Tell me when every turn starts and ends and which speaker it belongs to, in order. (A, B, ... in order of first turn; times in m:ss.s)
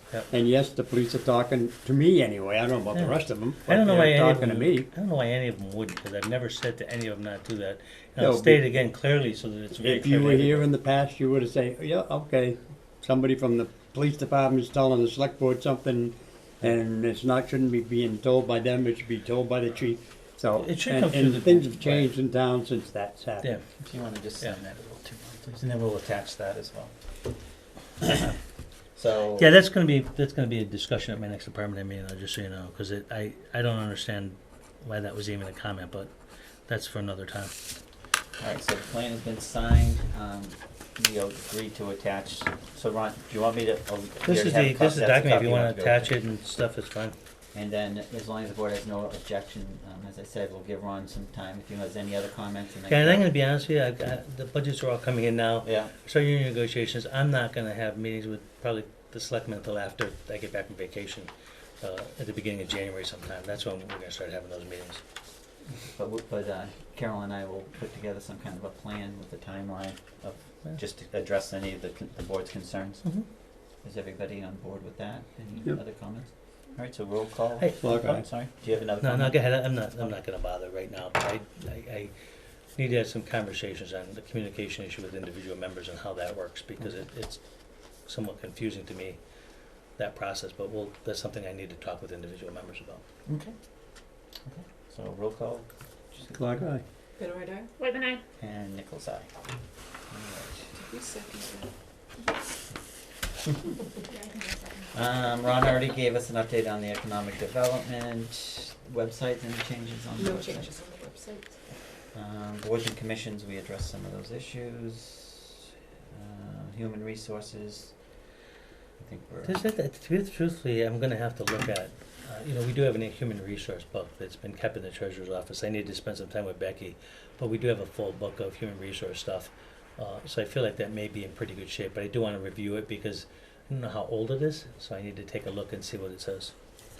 0:00.3-0:04.9 A
0:02.9-0:10.7 B
0:08.2-0:08.6 A
0:09.8-0:23.5 A
0:20.6-0:22.1 B
0:23.8-0:27.0 C
0:28.0-0:28.3 C
0:29.0-0:29.6 C
0:29.4-0:36.1 B
0:36.7-0:37.5 B
0:38.4-0:46.2 C
0:44.2-0:47.2 B
0:47.5-0:53.3 C
0:52.9-1:05.0 B
0:55.6-0:55.9 C
1:05.7-1:13.2 C
1:13.8-1:19.4 C
1:17.6-1:18.3 B
1:17.8-1:18.2 A
1:19.0-1:22.1 B
1:22.8-1:27.4 B
1:28.1-1:29.2 B
1:30.0-1:33.0 B
1:33.3-1:33.5 C
1:34.4-1:36.7 C
1:36.3-1:36.8 A
1:37.2-1:37.7 D
1:38.4-1:39.3 C
1:40.1-1:40.8 C
1:40.8-1:41.7 D
1:44.9-1:50.7 C
1:50.2-1:51.6 D
1:52.1-1:55.6 C
1:56.1-1:58.0 C
1:59.0-1:59.6 C
1:59.4-2:16.5 B